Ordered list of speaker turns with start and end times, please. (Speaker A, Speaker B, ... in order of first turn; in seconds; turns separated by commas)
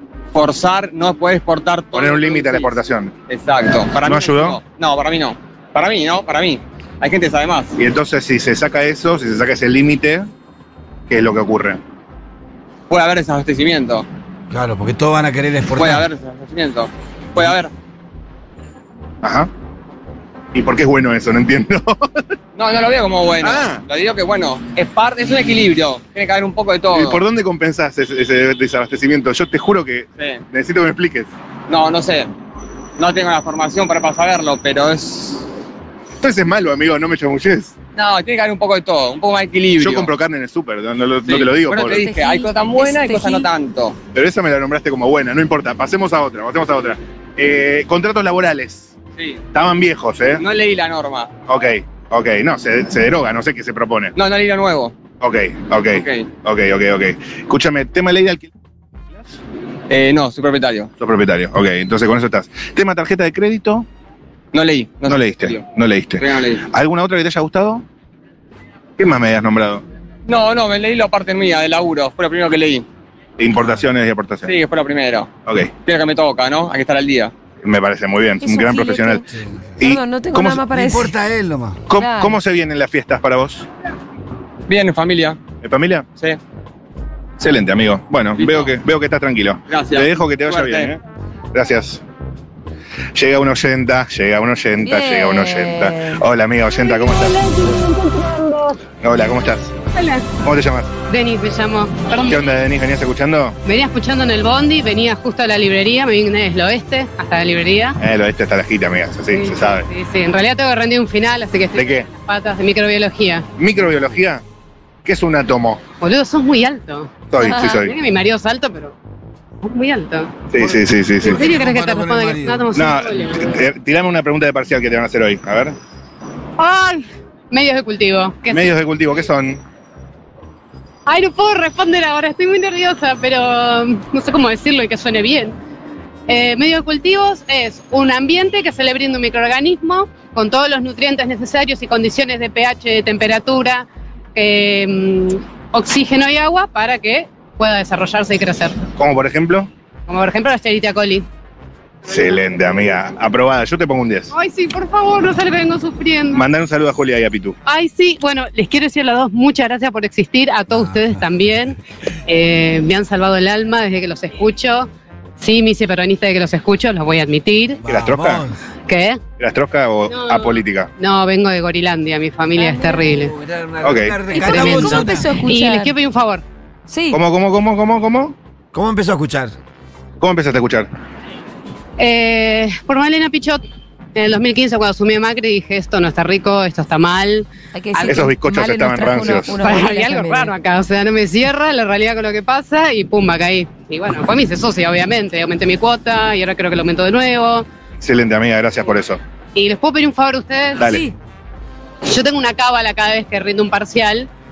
Speaker A: 0.3-7.8, Speaker B: 1.9-3.1, Speaker B: 4.0-4.6, Speaker B: 7.8-10.3, Speaker B: 11.1-11.8, Speaker A: 12.9-14.1, Speaker C: 14.5-16.1, Speaker A: 15.8-17.7, Speaker B: 19.2-19.5, Speaker B: 20.5-22.1, Speaker A: 22.6-27.2, Speaker B: 23.4-23.8, Speaker B: 26.9-31.3, Speaker A: 31.7-32.3, Speaker A: 33.0-35.5, Speaker B: 36.2-37.7, Speaker A: 38.0-40.1, Speaker B: 39.8-42.0, Speaker A: 41.3-44.0, Speaker D: 41.9-43.5, Speaker B: 44.1-49.0, Speaker B: 49.5-50.4, Speaker A: 50.4-51.3, Speaker B: 51.5-54.1, Speaker A: 54.2-55.0, Speaker B: 55.2-58.5, Speaker A: 55.9-56.3, Speaker A: 59.9-60.9, Speaker B: 61.0-63.9, Speaker A: 64.5-65.6, Speaker B: 65.1-67.8, Speaker A: 66.2-66.6, Speaker B: 69.0-69.8, Speaker A: 70.3-72.8, Speaker B: 73.4-74.5, Speaker A: 74.4-75.3, Speaker A: 75.8-77.3, Speaker B: 77.6-79.2, Speaker D: 78.4-79.2, Speaker C: 79.3-79.8, Speaker B: 79.8-80.6, Speaker D: 79.8-81.1, Speaker C: 80.6-81.8, Speaker B: 81.9-83.7, Speaker D: 82.0-82.4, Speaker A: 84.7-85.4, Speaker B: 85.6-86.1, Speaker B: 87.4-91.0, Speaker A: 88.4-88.8, Speaker A: 89.7-91.0, Speaker B: 91.5-92.0, Speaker B: 93.2-97.5, Speaker D: 94.8-96.2, Speaker B: 99.0-99.7, Speaker E: 100.0-100.3, Speaker B: 100.4-100.9, Speaker E: 101.1-102.5, Speaker B: 102.3-103.6, Speaker E: 103.7-108.0, Speaker B: 108.0-109.9, Speaker E: 109.3-113.5, Speaker B: 111.8-112.1, Speaker B: 113.6-114.4, Speaker B: 115.0-115.8, Speaker E: 116.0-119.0, Speaker B: 117.3-117.9, Speaker D: 117.4-117.8, Speaker E: 119.6-120.6, Speaker B: 120.5-121.4, Speaker E: 121.2-123.6, Speaker C: 121.2-122.8, Speaker B: 122.7-125.8, Speaker E: 126.6-128.8, Speaker B: 128.5-129.6, Speaker E: 131.1-135.6, Speaker E: 136.3-148.8, Speaker B: 149.0-149.7, Speaker E: 150.1-151.3, Speaker B: 152.1-154.3, Speaker E: 154.3-156.4, Speaker B: 156.3-157.6, Speaker E: 157.7-167.8, Speaker C: 160.7-161.3, Speaker C: 167.8-168.6, Speaker B: 167.9-168.5, Speaker E: 168.9-169.2, Speaker B: 169.4-170.9, Speaker E: 170.1-173.3, Speaker C: 172.6-175.3, Speaker D: 172.6-173.0, Speaker B: 173.8-174.2, Speaker D: 174.3-175.9, Speaker E: 174.4-176.4, Speaker D: 176.9-177.2, Speaker B: 177.1-178.3, Speaker C: 178.7-179.5, Speaker B: 180.2-180.9, Speaker E: 182.0-183.6, Speaker E: 184.2-187.5, Speaker D: 187.7-190.5, Speaker B: 188.0-189.6, Speaker E: 189.6-197.7, Speaker B: 198.0-199.2, Speaker E: 199.6-200.9, Speaker D: 200.8-201.1, Speaker E: 202.1-204.3